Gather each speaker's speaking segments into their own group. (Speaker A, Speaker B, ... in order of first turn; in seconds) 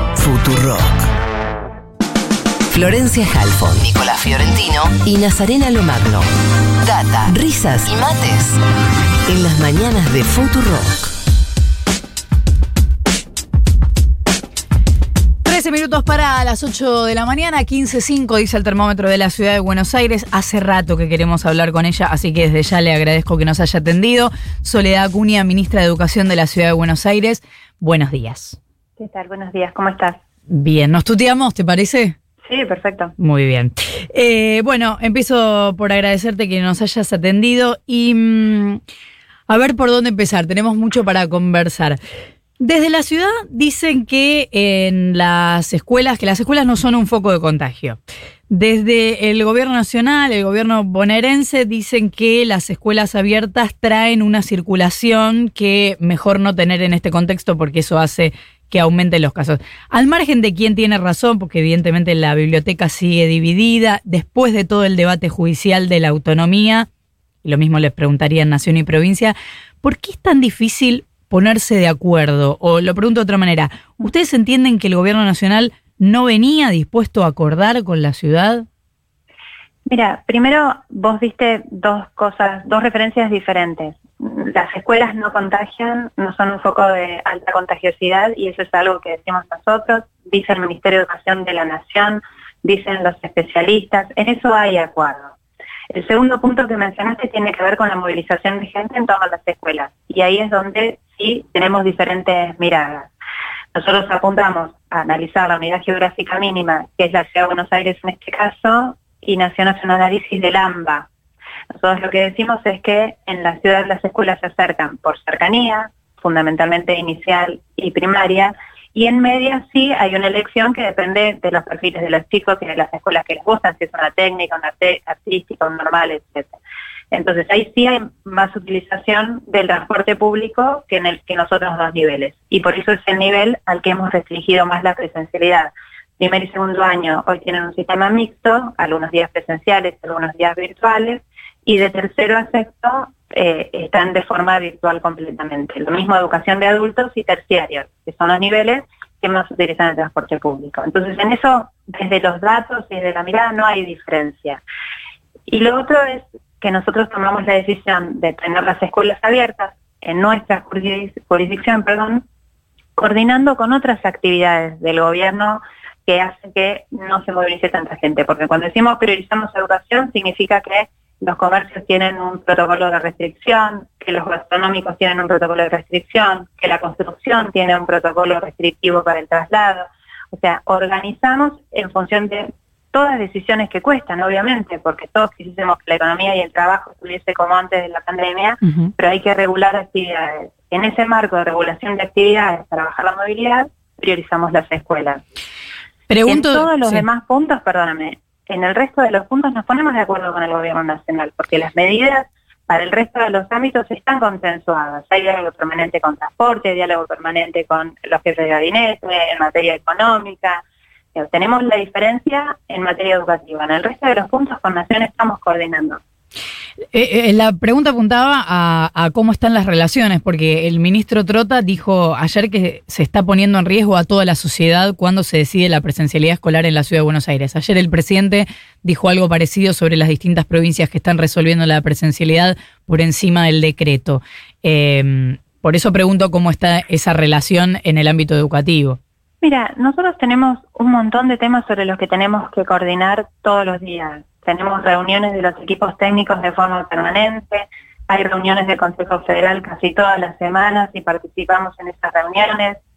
Speaker A: 0.1-1.1, 2.7-6.3, 6.8-8.6, 9.2-11.1
Speaker B: 15.4-28.6, 30.5-32.1, 33.2-38.8, 39.5-42.0, 42.6-48.0, 48.5-66.9, 67.4-78.7, 188.6-188.9, 196.1-197.0, 216.9-239.0
Speaker C: 29.0-30.2, 32.4-33.1, 79.8-95.3, 95.9-103.1, 103.7-111.1, 111.7-126.5, 127.1-154.6, 155.5-162.2, 162.9-195.2, 196.3-210.6, 211.1-216.0, 239.4-252.8